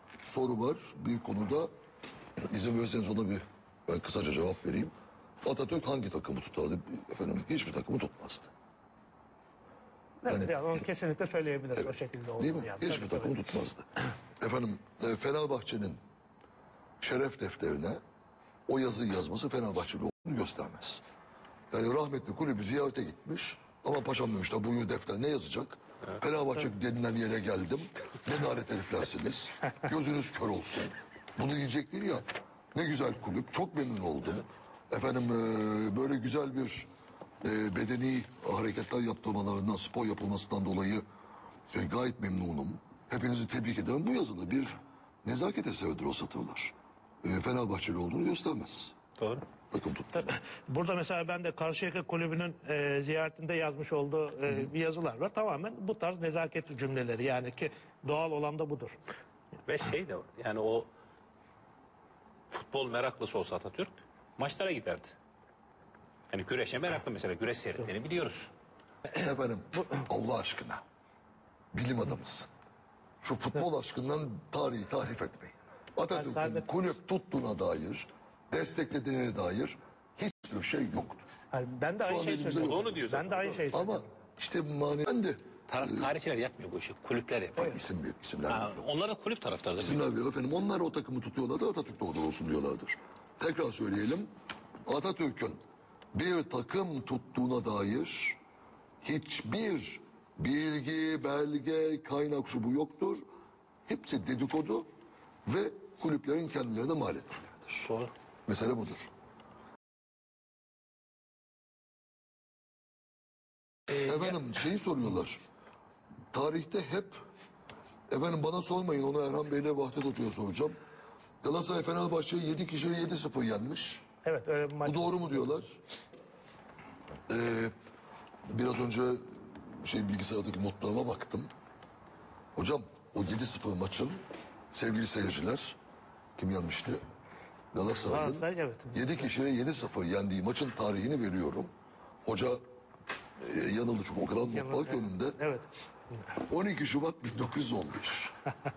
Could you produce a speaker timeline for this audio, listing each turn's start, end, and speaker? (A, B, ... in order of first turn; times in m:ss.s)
0:00.2-0:01.7 A
0:02.4-0:04.9 A
0:05.4-0:08.5 A
0:10.2-0:13.3 B
0:10.3-0:10.6 A
0:11.8-0:16.0 A
0:17.0-0:18.0 A
0:18.7-0:21.0 A
0:21.7-0:36.9 A
0:37.4-0:41.0 A
0:41.7-0:48.9 A
0:49.2-0:49.4 C
0:49.7-0:50.4 A
0:50.2-0:59.0 B
0:59.6-1:00.9 C
1:02.5-1:05.2 C
1:06.3-1:08.5 C
1:09.1-1:10.8 A
1:11.7-1:12.5 A
1:13.2-1:21.2 A
1:16.1-1:16.7 B
1:21.5-1:24.0 B
1:22.0-1:22.9 A
1:22.1-1:23.8 C
1:23.7-1:26.1 A
1:25.7-1:27.8 C
1:27.6-1:28.8 A
1:28.5-1:30.0 C
1:29.8-1:34.3 A
1:34.9-1:35.6 A
1:36.1-1:38.4 A
1:39.0-1:43.2 A
1:43.9-1:44.9 A
1:45.4-1:47.9 A
1:47.8-1:48.1 C
1:48.5-1:49.1 A
1:53.9-1:55.4 A
1:56.3-1:57.2 A
1:58.1-2:00.8 A
2:01.4-2:04.0 A
2:04.2-2:05.6 B
2:04.8-2:05.8 A
2:07.3-2:07.7 A
2:08.5-2:11.5 A
2:12.6-2:14.2 A
2:14.7-2:15.8 A
2:16.4-2:17.0 A
2:17.7-2:21.7 A
2:18.0-2:19.3 B
2:22.2-2:22.6 A
2:23.4-2:25.4 A
2:24.4-2:25.7 B
2:26.4-2:28.3 A